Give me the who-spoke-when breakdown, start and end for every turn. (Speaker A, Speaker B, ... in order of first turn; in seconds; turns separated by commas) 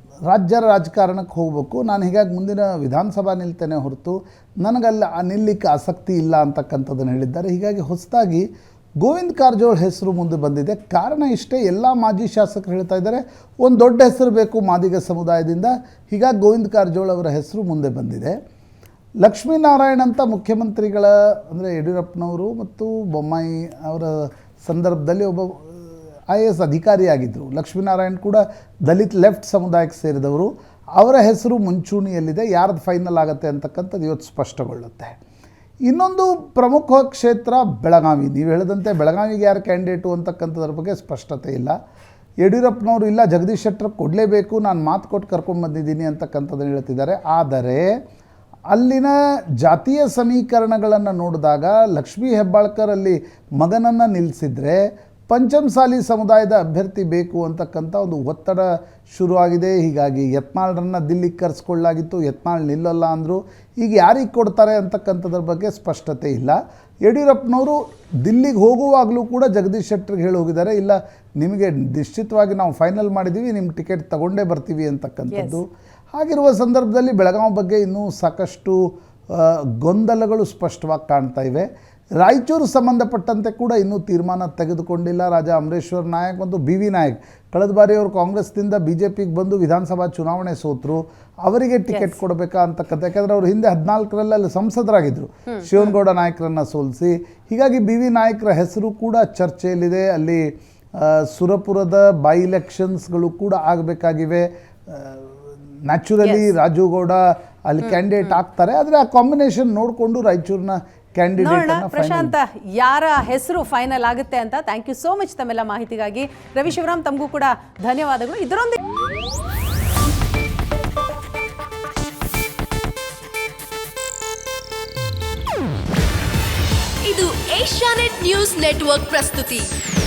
Speaker A: 0.3-8.5, Speaker A: 9.0-18.4, Speaker A: 19.2-35.2, Speaker A: 35.9-41.8, Speaker A: 42.4-47.9, Speaker A: 48.7-78.8, Speaker B: 75.3-75.6, Speaker A: 79.3-81.7, Speaker A: 82.2-100.5, Speaker B: 95.5-95.8, Speaker A: 101.0-105.3, Speaker A: 105.9-112.3, Speaker B: 111.4-118.8, Speaker C: 127.0-129.7